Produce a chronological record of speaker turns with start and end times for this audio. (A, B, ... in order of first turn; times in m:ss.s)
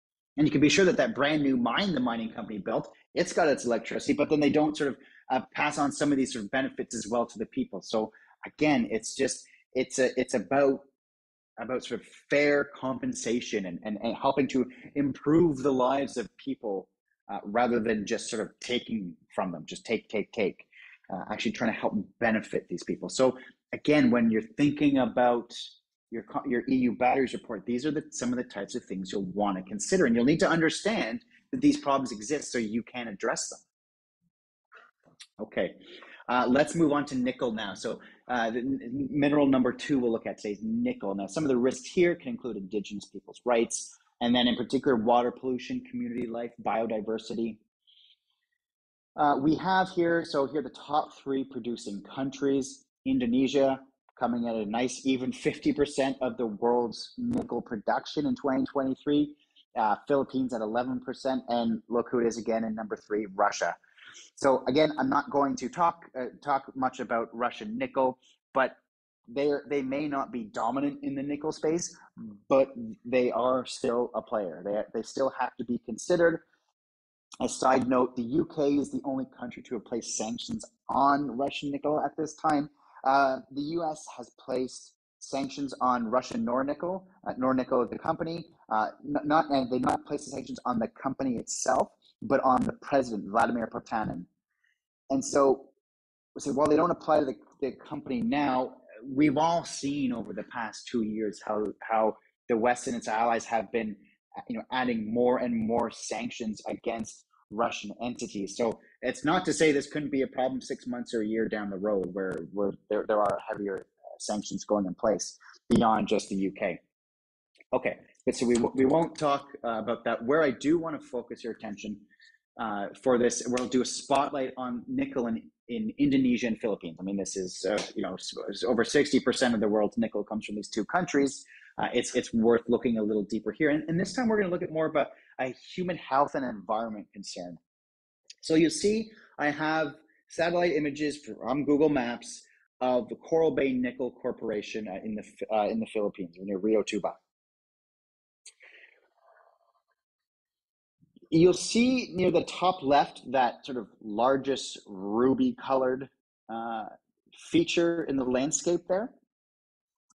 0:00.4-0:10.8 A
0:11.6-0:33.6 A
0:35.4-0:47.6 A
0:49.2-1:03.8 A
1:04.4-1:08.7 A
1:09.3-1:16.4 A
1:17.4-1:34.3 A
1:35.1-1:35.7 A
1:36.4-1:56.8 A
1:57.7-2:02.0 A
2:02.6-2:17.6 A
2:18.4-2:27.2 A
2:31.3-2:39.1 A